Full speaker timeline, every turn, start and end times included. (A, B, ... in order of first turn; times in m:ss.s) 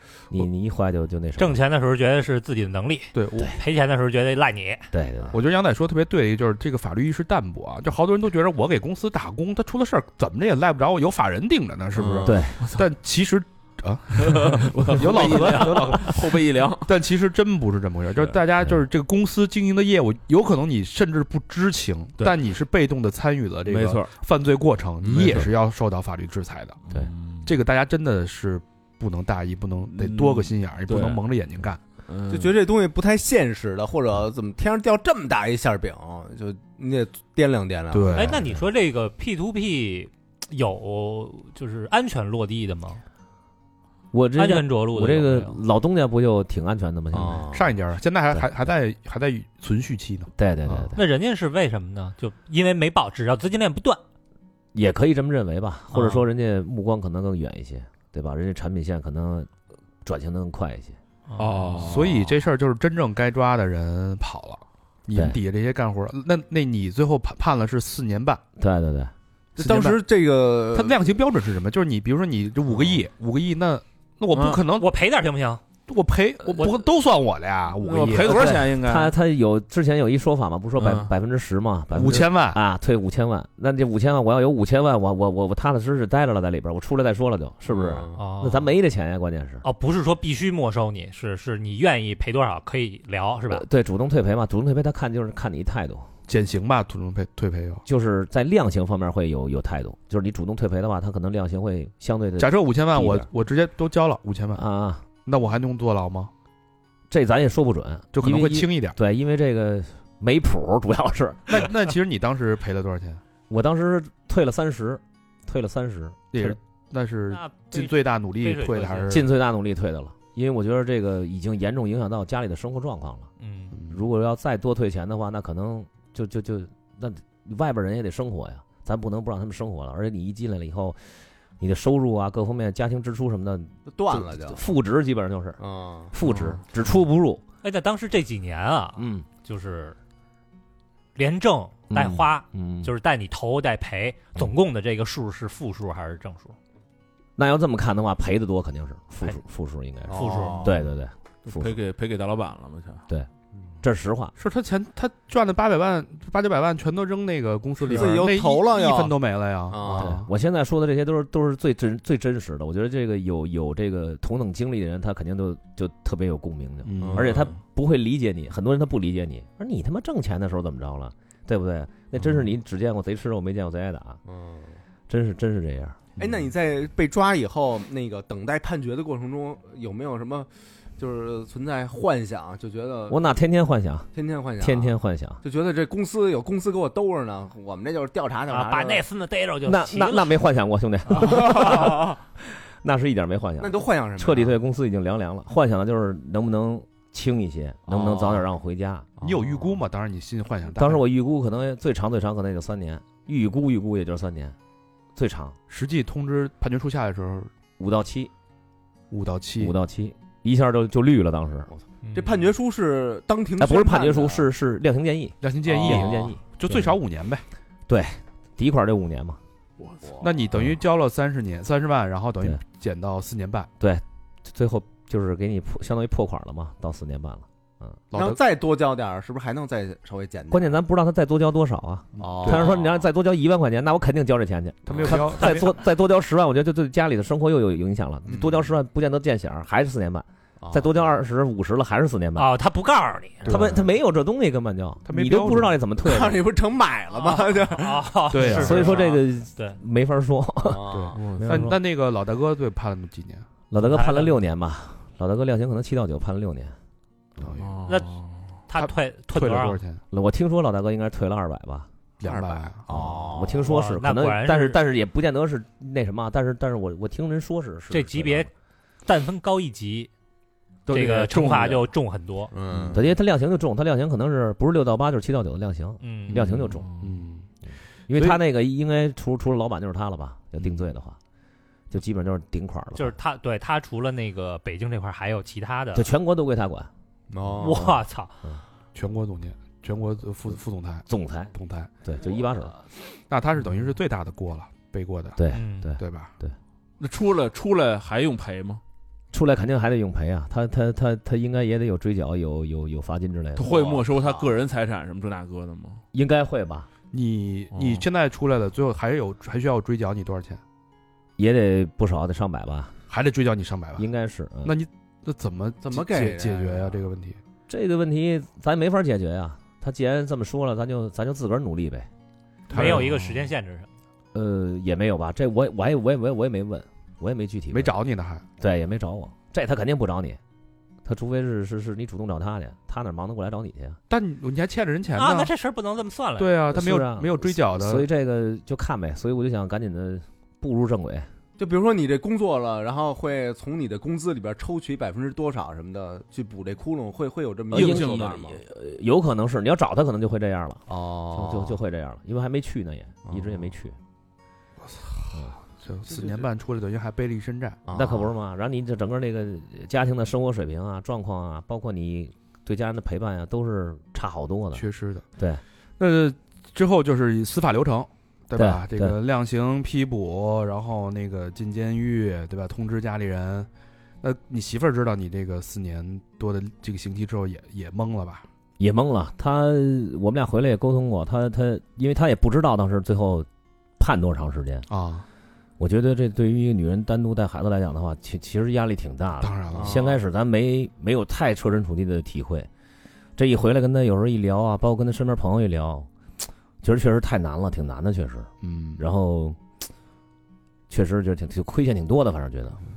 0:00.3-0:01.6 A
0:01.4-0:04.9 B
0:03.1-0:03.5 C
0:04.9-0:05.4 A
0:05.3-0:26.8 C
0:12.0-0:12.4 D
0:12.2-0:12.6 A
0:14.2-0:16.9 E
0:23.7-0:24.1 E
0:25.0-0:25.5 E
0:26.9-0:27.5 E
0:27.4-0:31.8 C
0:29.9-0:31.2 E
0:32.1-0:32.6 E
0:32.3-0:38.4 D
0:37.9-0:38.6 C
0:38.1-0:43.0 B
0:44.1-0:47.4 A
0:44.4-0:45.6 B
0:47.1-0:47.7 D
0:47.5-0:50.9 C
0:50.4-0:51.0 A
0:51.0-0:54.0 B
0:54.7-0:59.5 A
0:55.9-0:56.2 B
1:00.0-1:01.0 A
1:01.3-1:01.8 B
1:01.4-1:02.3 E
1:01.8-1:08.4 C
1:08.6-1:09.1 A
1:09.6-1:10.0 C
1:09.6-1:11.0 D
1:10.7-1:14.9 C
1:14.3-1:14.6 E
1:14.7-1:15.6 B
1:15.9-1:18.6 C
1:17.8-1:19.1 E
1:18.5-1:29.6 A
1:20.8-1:21.1 E
1:21.9-1:22.6 C
1:27.7-1:28.2 D
1:28.1-1:28.7 B
1:29.6-1:33.6 B
1:33.5-1:36.1 A
1:36.3-1:37.8 C
1:37.9-1:43.3 A
1:42.4-1:44.6 C
1:44.6-1:45.0 A
1:45.2-1:46.3 C
1:47.1-1:51.7 A
1:48.1-1:49.0 C
1:51.5-1:53.2 C
1:53.5-1:56.6 A
1:56.3-1:59.3 C
1:57.3-1:59.3 B
1:59.1-2:03.3 A
2:03.4-2:03.8 B
2:03.7-2:04.0 C
2:03.9-2:11.0 A
2:11.6-2:15.6 A
2:13.9-2:14.6 D
2:15.6-2:16.1 D
2:16.1-2:17.4 A
2:17.6-2:20.0 B
2:19.0-2:19.3 A
2:21.2-2:26.6 B
2:21.9-2:22.9 A
2:27.4-2:31.7 A
2:30.1-2:30.8 D
2:30.1-2:30.8 B
2:31.5-2:33.0 E
2:33.8-2:34.3 A
2:34.4-2:40.3 C
2:37.9-2:39.2 D
2:39.7-2:40.2 D
2:40.0-2:54.2 A
2:46.8-2:47.5 C
2:47.0-2:47.5 D
2:54.3-2:54.8 D
2:55.1-2:56.0 A
2:56.2-2:56.5 C
2:56.2-3:03.2 D
3:03.1-3:05.4 A
3:04.1-3:09.0 D
3:08.5-3:10.4 B
3:09.6-3:19.1 A
3:11.1-3:12.2 D
3:13.6-3:14.6 D
3:17.9-3:18.4 D
3:19.2-3:19.8 D
3:19.2-3:21.0 C
3:20.8-3:24.6 A
3:25.1-3:25.6 A
3:25.7-3:27.5 C
3:27.8-3:28.3 A
3:29.1-3:29.8 C
3:29.6-3:31.7 A
3:32.0-3:32.5 B
3:32.1-3:34.5 D
3:33.6-3:37.0 A
3:35.4-3:37.4 C
3:35.7-3:36.3 D
3:37.9-3:39.4 A
3:40.0-3:40.3 D
3:40.2-3:43.7 C
3:43.8-3:48.0 A
3:48.1-3:48.4 C
3:48.1-3:50.8 D
3:50.5-4:02.5 A
3:52.2-3:52.7 C
3:52.2-3:52.9 D
3:54.9-3:55.2 D
3:54.9-3:55.7 C
4:00.6-4:01.0 D
4:02.4-4:03.5 B
4:03.4-4:03.9 C
4:03.4-4:06.4 A
4:05.0-4:05.8 C
4:06.0-4:08.1 D
4:07.1-4:09.8 B
4:08.3-4:09.0 C
4:08.4-4:10.8 A
4:10.6-4:11.2 D
4:10.9-4:13.4 C
4:11.1-4:11.7 E
4:11.3-4:11.8 A
4:13.7-4:16.7 A
4:13.8-4:14.3 B
4:17.4-4:17.8 C
4:17.6-4:18.4 E
4:18.7-4:19.8 B
4:18.7-4:20.0 C
4:20.1-4:21.9 A
4:22.2-4:23.1 C
4:22.2-4:23.6 D
4:22.9-4:28.5 A
4:23.6-4:24.8 B
4:27.9-4:28.5 B
4:29.1-4:30.1 B
4:30.9-4:31.8 E
4:30.9-4:32.5 B
4:32.5-4:33.0 D
4:32.9-4:36.9 A
4:36.0-4:36.5 B
4:36.3-4:37.4 C
4:36.8-4:37.2 E
4:38.1-4:41.2 A
4:41.9-4:43.1 A
4:43.0-4:46.1 B
4:46.0-4:46.9 A
4:47.3-4:47.9 D
4:47.6-4:48.3 B
4:49.0-4:51.9 C
4:51.1-4:51.5 A
4:52.0-4:52.7 A
4:53.3-4:55.4 C
4:55.4-4:56.6 A
4:55.5-4:55.9 B
4:56.0-4:56.3 C
4:57.0-4:58.8 E
4:59.3-5:04.0 A
5:03.6-5:06.0 E
5:03.6-5:04.6 D
5:06.1-5:06.9 A
5:07.1-5:10.6 C
5:07.8-5:08.0 E
5:11.4-5:12.9 A
5:13.1-5:14.1 C
5:14.0-5:14.7 A
5:14.6-5:17.4 C
5:15.8-5:17.0 D
5:17.7-5:22.1 A
5:22.7-5:23.3 C
5:22.7-5:23.9 B
5:24.3-5:27.9 A
5:27.7-5:28.4 C
5:28.6-5:30.4 A
5:31.0-5:34.0 A
5:34.1-5:35.5 C
5:35.1-5:36.5 B
5:36.4-5:38.1 C
5:36.7-5:41.3 A
5:41.6-5:48.6 D
5:47.7-5:54.0 A
5:47.7-5:48.5 E
5:50.9-5:51.8 D
5:53.3-5:53.6 D
5:54.8-5:57.8 C
5:57.9-5:58.3 D
5:57.9-6:04.8 A
6:04.7-6:05.2 C
6:06.0-6:13.7 C
6:08.6-6:09.2 A
6:14.2-6:18.4 C
6:18.8-6:23.5 A
6:24.0-6:24.9 A
6:24.9-6:25.3 C
6:25.8-6:32.7 A
6:29.4-6:30.0 C
6:29.7-6:30.2 D
6:33.4-6:36.1 A
6:36.8-6:39.6 A
6:38.6-6:39.0 C
6:40.9-6:42.8 A